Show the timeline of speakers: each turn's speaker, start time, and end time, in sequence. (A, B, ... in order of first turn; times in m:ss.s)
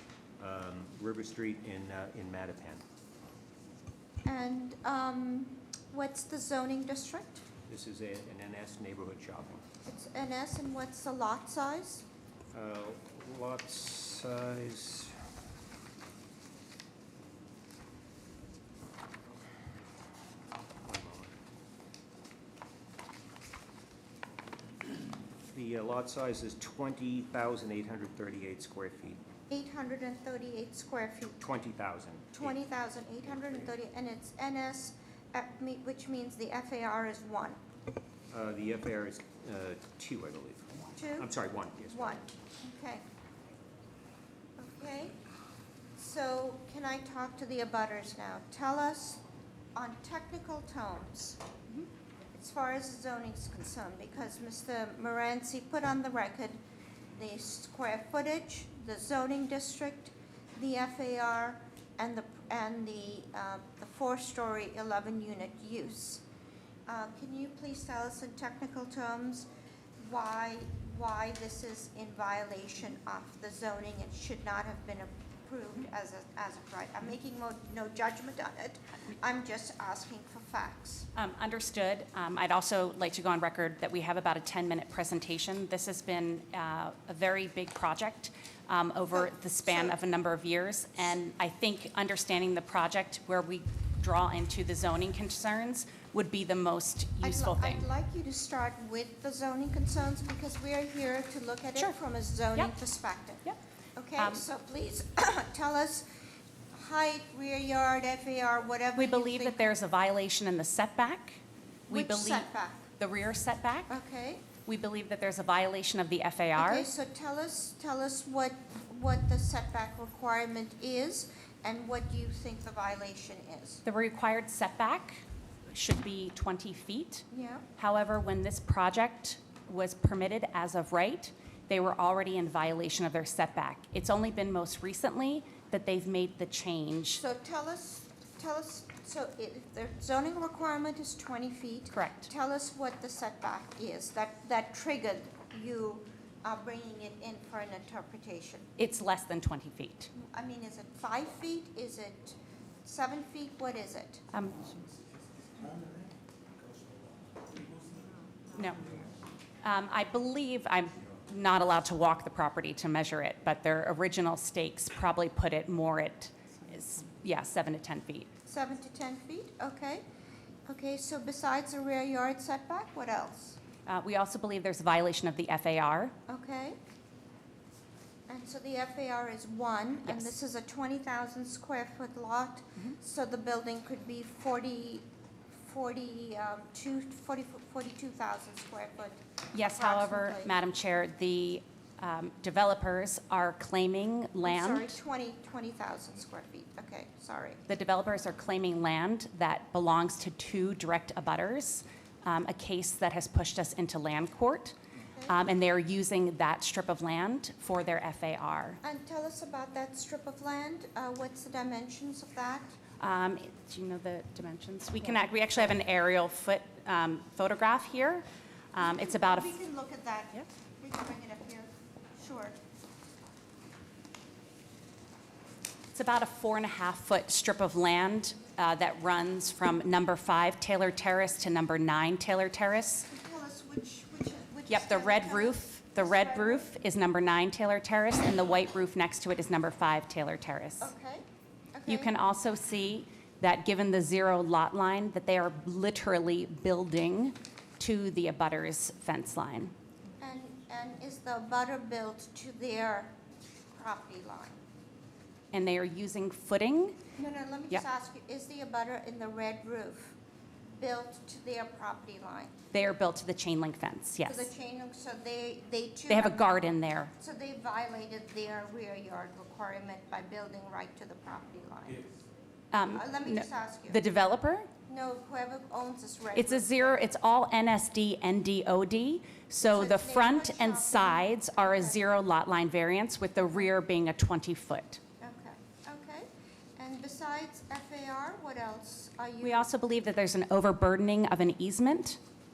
0:00.4-0:02.8 A
0:04.2-0:07.4 B
0:07.7-0:09.6 A
0:09.8-0:12.1 B
0:12.5-0:15.2 A
0:20.8-0:21.3 A
0:25.4-0:29.2 A
0:29.5-0:31.4 B
0:31.4-0:32.5 A
0:32.3-0:37.6 B
0:38.3-0:42.2 A
0:41.0-0:41.3 B
0:41.8-0:43.0 B
0:44.6-0:45.2 B
0:46.0-0:49.2 B
0:49.7-0:51.4 B
0:52.3-0:56.6 B
0:57.1-1:06.2 B
1:06.9-1:21.1 B
1:21.2-1:37.9 C
1:29.1-1:30.0 B
1:37.2-1:46.0 B
1:44.2-1:44.4 C
1:46.7-1:49.8 B
1:49.0-1:53.9 C
1:51.9-1:52.9 B
1:53.9-1:54.5 B
1:54.7-1:56.9 C
1:56.6-2:03.8 B
2:03.8-2:07.3 C
2:07.3-2:07.7 B
2:07.8-2:17.2 C
2:17.1-2:28.7 B
2:21.9-2:22.3 C
2:28.8-2:30.1 C
2:30.1-2:34.2 B
2:34.3-2:34.7 C
2:38.6-2:39.0 C
2:39.6-2:48.3 C
2:48.4-2:50.0 B
2:50.7-2:53.6 B
2:53.8-2:56.1 C
2:56.3-2:56.8 B
2:58.3-3:10.5 B
3:00.0-3:00.3 C
3:09.5-3:15.0 C
3:14.4-3:17.6 B
3:17.7-3:24.8 C
3:25.3-3:28.8 C
3:28.8-3:32.8 B
3:33.0-3:39.5 C
3:38.8-3:42.6 B
3:45.9-3:53.1 C
3:53.1-3:56.7 B
3:54.7-4:00.9 C
4:00.8-4:02.1 B
4:01.9-4:09.7 C
4:10.2-4:13.1 B
4:13.7-4:14.6 B
4:15.5-4:17.0 C
4:17.2-4:20.2 B
4:20.8-4:22.6 B
4:22.7-4:24.5 C
4:24.2-4:26.6 B
4:26.1-4:27.1 C
4:27.2-4:32.1 B
4:32.7-4:34.7 C
4:32.8-4:34.0 B
4:34.9-4:37.0 B
4:36.3-4:45.0 C
4:39.6-4:42.0 B
4:45.2-4:49.7 B
4:49.4-4:52.2 C